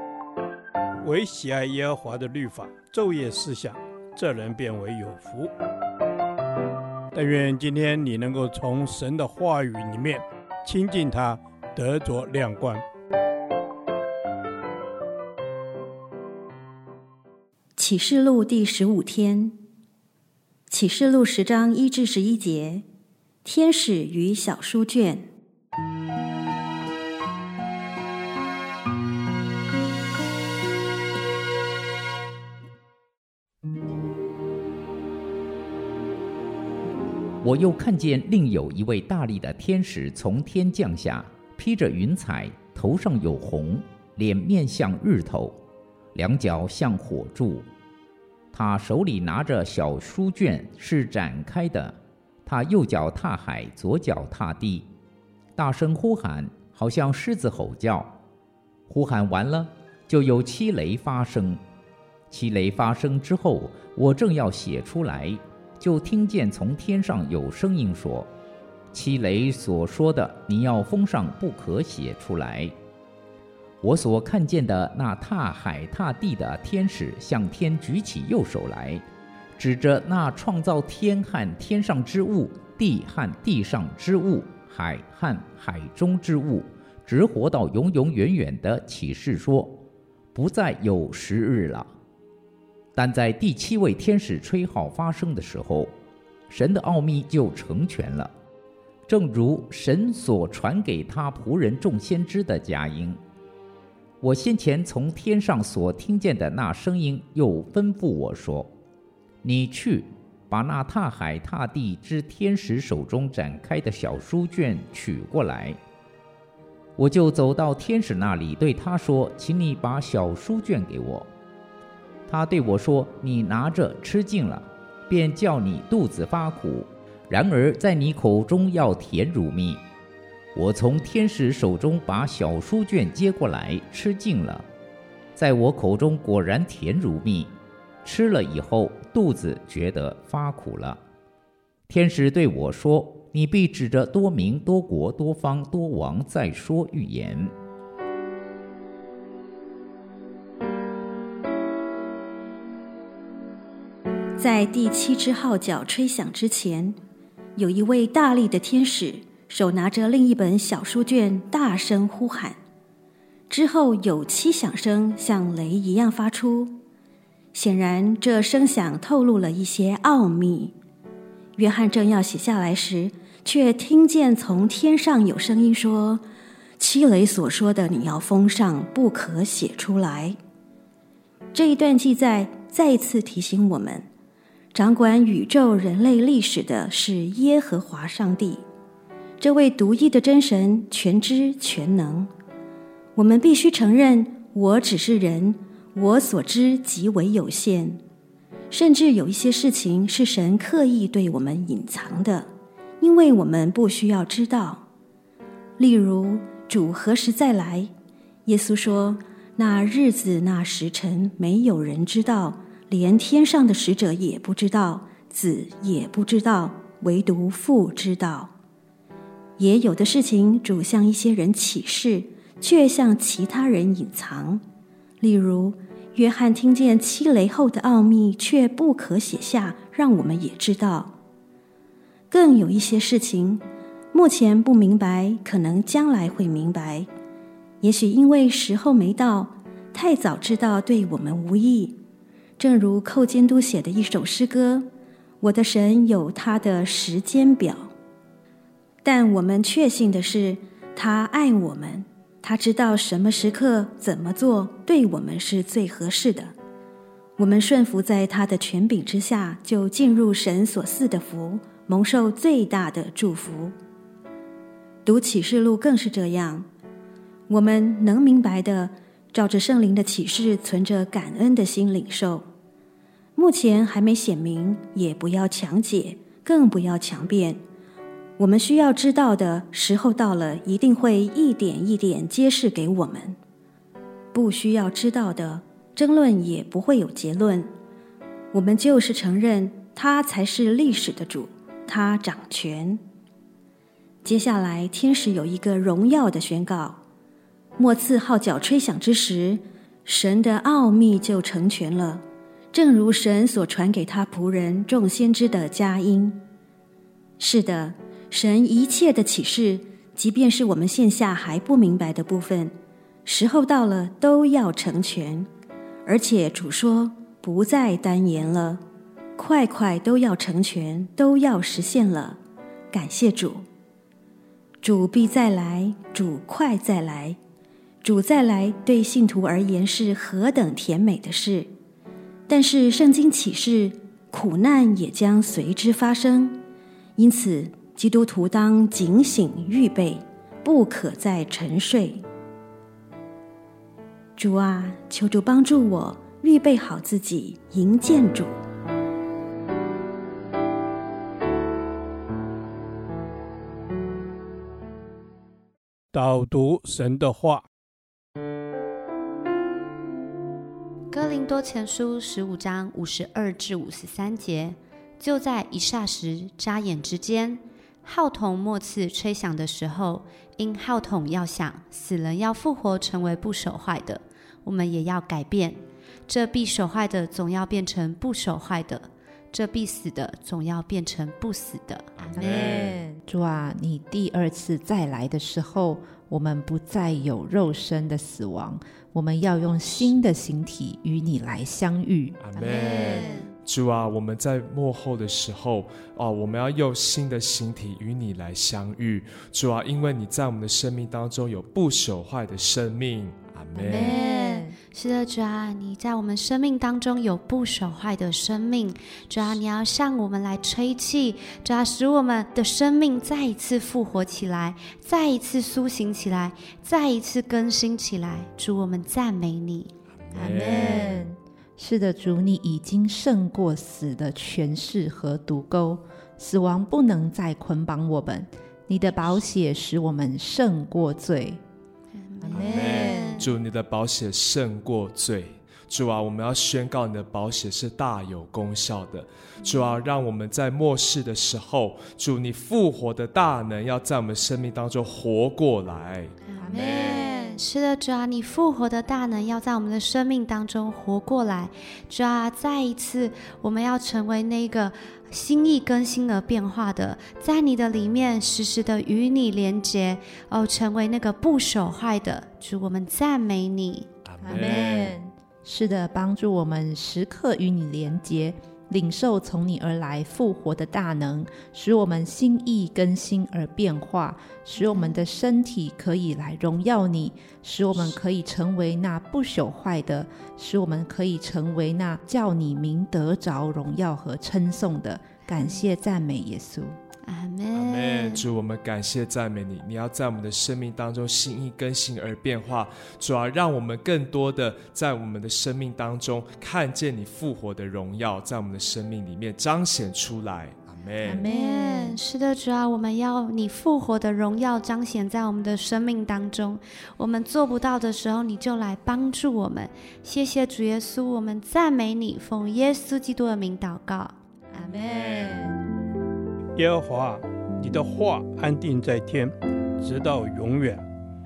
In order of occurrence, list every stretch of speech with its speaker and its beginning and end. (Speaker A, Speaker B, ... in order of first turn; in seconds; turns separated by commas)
Speaker A: 1.0-5.5, Speaker A: 7.1-12.8, Speaker B: 17.8-19.6, Speaker B: 20.7-22.8, Speaker B: 23.4-25.2, Speaker C: 37.4-45.6, Speaker C: 46.1-47.7, Speaker C: 48.5-54.9, Speaker C: 55.5-58.2, Speaker C: 58.9-61.6, Speaker C: 62.3-68.3, Speaker C: 68.9-72.7, Speaker C: 73.8-79.0, Speaker C: 79.6-89.8, Speaker C: 90.3-91.9, Speaker C: 92.9-95.9, Speaker C: 96.5-98.3, Speaker C: 99.1-103.2, Speaker C: 104.2-108.7, Speaker C: 109.4-115.8, Speaker C: 117.0-121.3, Speaker C: 122.3-129.8, Speaker C: 130.5-134.7, Speaker C: 135.3-141.0, Speaker C: 141.9-147.5, Speaker B: 154.4-157.0, Speaker B: 157.6-162.6, Speaker B: 163.5-166.8, Speaker B: 167.5-170.8, Speaker B: 171.6-176.2, Speaker B: 176.8-180.4, Speaker B: 181.5-184.1, Speaker B: 184.7-188.7, Speaker B: 189.4-192.3, Speaker B: 193.1-198.0, Speaker B: 198.7-202.5, Speaker B: 203.0-204.8, Speaker B: 205.8-207.9, Speaker B: 208.4-218.5, Speaker B: 219.6-224.6, Speaker B: 225.2-231.1, Speaker B: 232.3-237.1, Speaker B: 237.8-242.0, Speaker B: 242.6-244.9, Speaker B: 245.4-247.9, Speaker B: 249.0-256.5, Speaker B: 257.4-263.7, Speaker B: 265.0-266.7, Speaker B: 267.5-272.4, Speaker B: 273.4-277.6, Speaker B: 278.4-283.4, Speaker B: 284.3-287.7, Speaker B: 288.5-293.0, Speaker B: 294.2-297.0, Speaker B: 297.8-306.4, Speaker B: 307.4-315.5, Speaker B: 316.0-318.8, Speaker B: 319.4-322.4, Speaker B: 322.9-323.6, Speaker B: 324.8-327.4, Speaker B: 328.0-331.7, Speaker B: 332.5-336.6, Speaker B: 337.1-342.2, Speaker B: 344.4-348.6, Speaker A: 356.1-357.6, Speaker D: 361.1-382.9, Speaker E: 382.2-382.9, Speaker F: 382.3-393.2, Speaker E: 392.4-404.2, Speaker D: 392.6-393.5, Speaker F: 403.7-404.8, Speaker D: 403.9-421.1, Speaker E: 420.3-421.1, Speaker F: 420.4-431.6, Speaker D: 432.1-433.5, Speaker F: 432.4-433.3, Speaker E: 432.5-447.2, Speaker D: 446.5-464.1, Speaker F: 446.6-447.5, Speaker E: 464.2-465.1, Speaker F: 464.4-486.9, Speaker D: 474.8-475.2, Speaker D: 487.2-488.4, Speaker E: 487.7-501.4, Speaker F: 501.2-502.2, Speaker D: 501.4-514.3, Speaker F: 514.7-515.8, Speaker A: 516.7-521.0